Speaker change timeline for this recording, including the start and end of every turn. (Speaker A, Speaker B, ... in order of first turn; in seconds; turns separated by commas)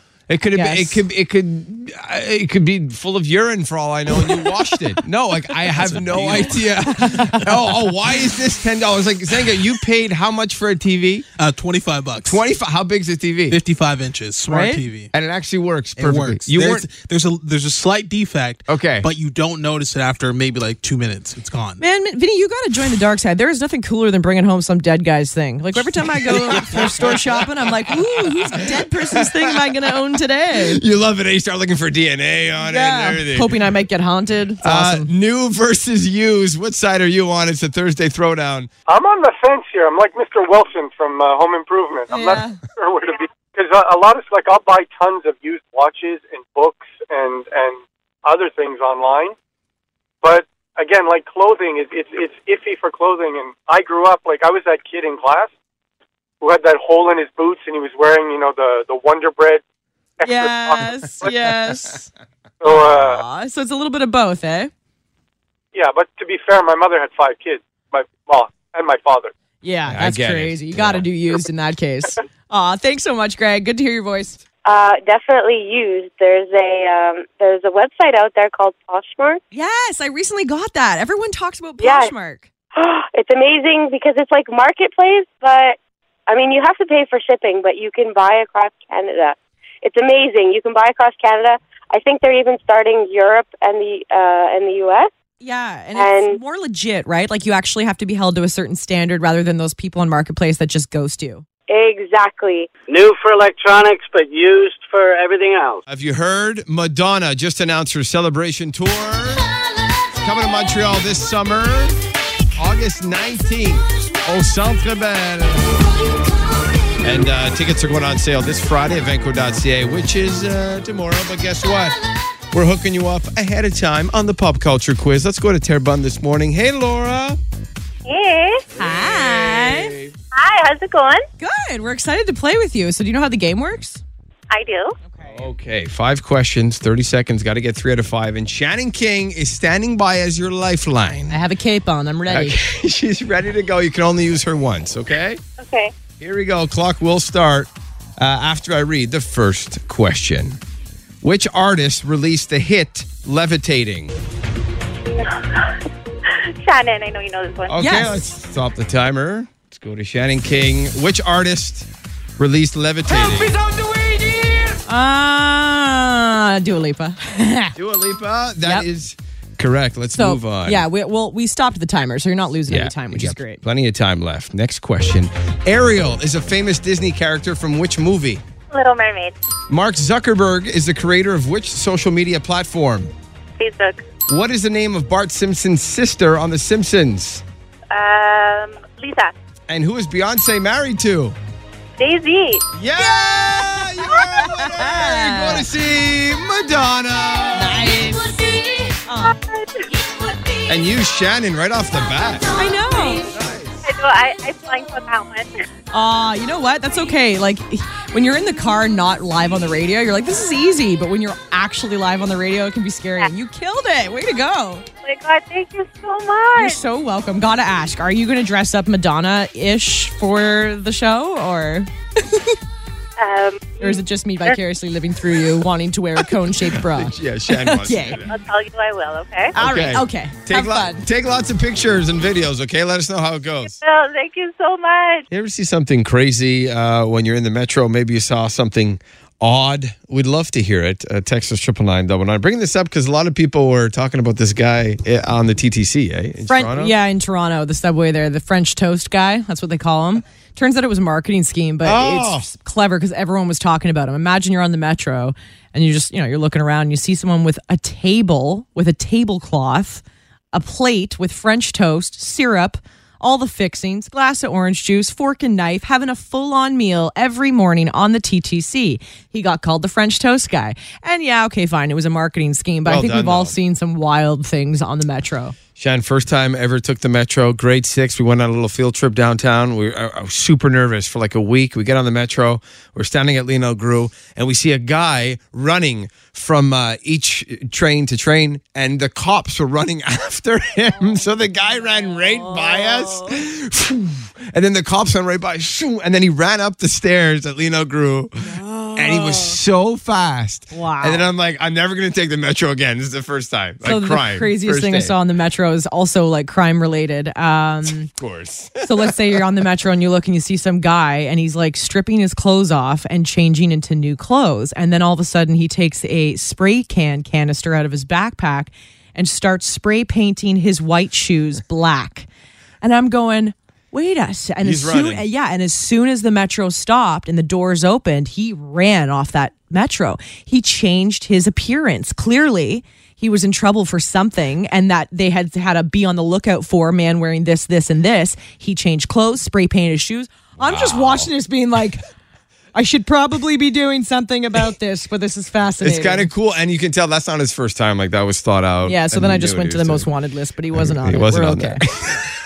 Speaker A: 0.3-11.2, Speaker B: 0.5-1.0, Speaker C: 5.5-7.7, Speaker B: 7.0-7.4, Speaker C: 11.3-12.4, Speaker A: 12.2-13.6, Speaker C: 13.5-15.1, Speaker B: 14.5-14.8, Speaker A: 15.1-16.9, Speaker C: 16.0-21.8, Speaker A: 18.7-19.1, Speaker B: 21.8-30.8, Speaker C: 25.7-27.5, Speaker A: 26.7-27.1, Speaker A: 30.5-33.5, Speaker B: 32.6-35.1, Speaker A: 34.6-38.7, Speaker D: 38.9-49.3, Speaker B: 42.1-42.6, Speaker D: 50.2-55.5, Speaker D: 56.4-59.6, Speaker D: 60.2-61.5, Speaker B: 60.2-62.1, Speaker D: 62.6-63.2, Speaker B: 62.7-64.7, Speaker D: 65.7-69.3, Speaker B: 69.6-74.4, Speaker A: 69.9-71.0, Speaker E: 74.7-79.4, Speaker B: 79.5-82.5, Speaker E: 81.8-82.1, Speaker E: 82.8-85.8, Speaker E: 86.3-95.1, Speaker B: 95.4-101.4, Speaker E: 95.9-96.4, Speaker E: 101.7-102.7, Speaker F: 102.9-105.8, Speaker A: 105.9-109.5, Speaker A: 110.2-112.0, Speaker A: 112.6-115.8, Speaker A: 117.0-122.0, Speaker A: 122.5-127.4, Speaker G: 128.1-128.5, Speaker B: 128.8-129.9, Speaker A: 128.8-130.1, Speaker G: 130.3-131.2, Speaker B: 131.4-134.0, Speaker G: 134.5-134.9, Speaker B: 135.1-135.5, Speaker A: 135.3-141.4, Speaker B: 141.3-142.5, Speaker A: 142.3-145.4, Speaker A: 146.2-150.6, Speaker A: 151.2-154.1, Speaker G: 156.6-158.1, Speaker A: 157.7-163.6, Speaker B: 164.9-167.8, Speaker A: 167.8-170.8, Speaker B: 170.2-173.6, Speaker A: 172.7-178.4, Speaker G: 178.7-179.3, Speaker A: 179.7-183.1, Speaker G: 183.6-184.0, Speaker A: 184.3-187.4, Speaker G: 187.9-189.3, Speaker A: 189.7-191.4, Speaker G: 192.0-192.6, Speaker A: 192.8-197.9, Speaker B: 193.0-193.6, Speaker B: 194.5-195.7, Speaker B: 197.5-199.3, Speaker A: 200.7-202.4, Speaker B: 202.5-203.2, Speaker A: 203.2-203.9, Speaker G: 203.8-205.5, Speaker B: 205.9-214.9, Speaker G: 215.1-216.4, Speaker B: 216.5-221.9, Speaker E: 223.2-224.0, Speaker B: 223.8-228.1, Speaker A: 226.8-228.4, Speaker G: 228.1-229.6, Speaker A: 229.5-233.8, Speaker B: 229.6-231.0, Speaker G: 233.6-235.2, Speaker A: 235.3-246.9, Speaker B: 246.4-275.6, Speaker A: 251.8-252.5, Speaker A: 272.8-273.5, Speaker A: 275.8-305.1, Speaker B: 291.8-293.3, Speaker B: 298.4-299.6, Speaker B: 300.7-301.3, Speaker B: 303.8-308.1, Speaker A: 308.1-309.4, Speaker B: 308.8-322.3, Speaker B: 322.8-342.0, Speaker A: 324.6-325.3, Speaker A: 340.6-341.3, Speaker B: 342.7-346.3, Speaker A: 345.8-350.1, Speaker B: 348.8-351.8, Speaker A: 350.7-352.2